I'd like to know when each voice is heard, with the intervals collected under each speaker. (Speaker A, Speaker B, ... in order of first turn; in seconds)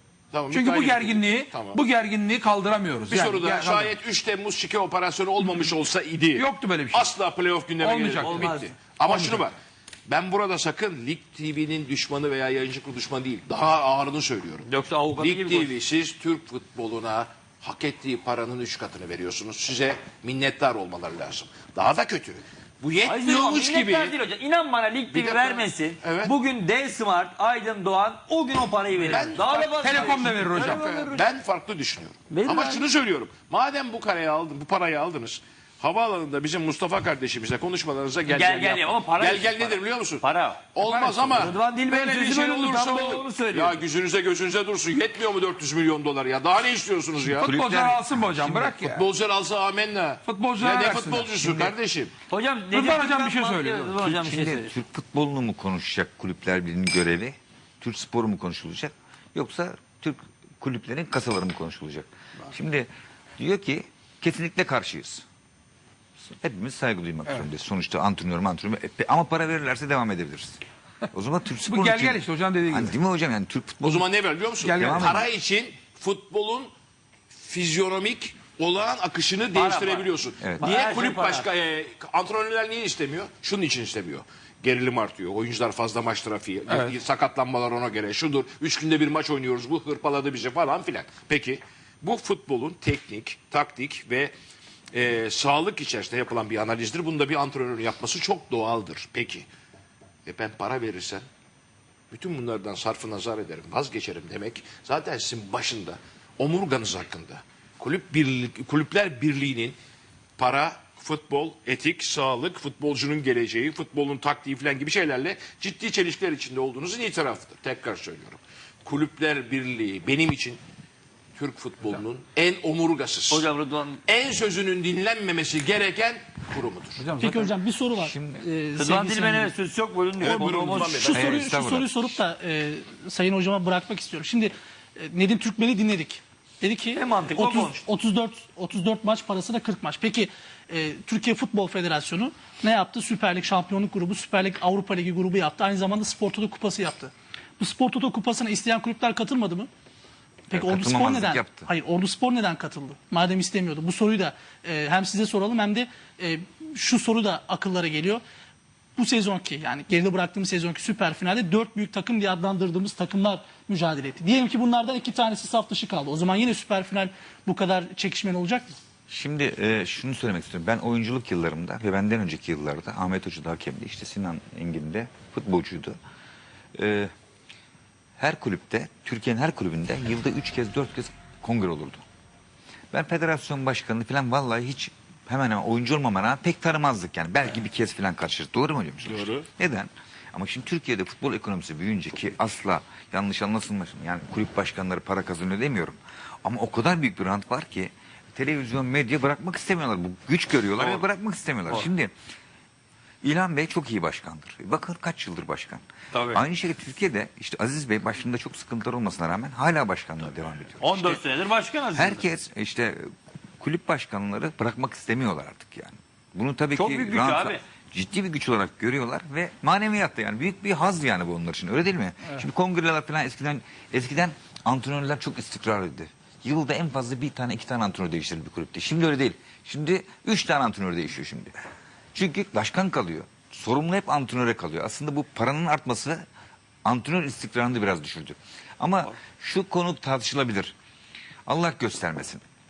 Speaker A: 0.3-1.8, 3.1-24.1, 25.1-26.4, 29.0-47.5, 48.6-52.1, 73.8-76.7, 77.3-94.3, 94.9-99.5, 100.2-101.2, 102.1-109.8, 110.4-120.6, 121.4-123.5, 124.1-127.1, 130.2-131.6, 189.1-189.4
Speaker B: 0.5-4.0, 6.3-7.1, 7.8-9.5, 29.0-30.9, 40.8-41.4, 47.4-49.1, 50.2-51.8, 52.7-54.0, 71.7-72.9, 74.6-75.1, 86.7-86.9, 127.0-127.4
Speaker C: 8.2-8.7, 14.7-15.7, 23.0-31.2, 32.3-32.8, 38.3-40.6, 41.3-43.8, 52.3-54.7, 79.5-81.5, 123.3-124.0, 128.8-131.2, 136.9-137.8, 206.1-206.4, 210.8-212.2, 216.8-217.6
Speaker D: 47.2-48.7, 54.0-65.2, 66.2-70.6, 71.1-74.1, 74.7-75.3, 127.9-128.4, 131.1-132.2, 150.5-151.7, 169.1-176.0, 176.8-177.1, 178.2-182.0, 182.9-202.1, 203.2-211.2, 211.9-213.1, 213.6-231.6, 232.1-236.2, 236.8-240.7, 241.5-242.4
Speaker E: 127.1-129.5, 130.8-149.7, 150.5-158.2, 159.0-168.8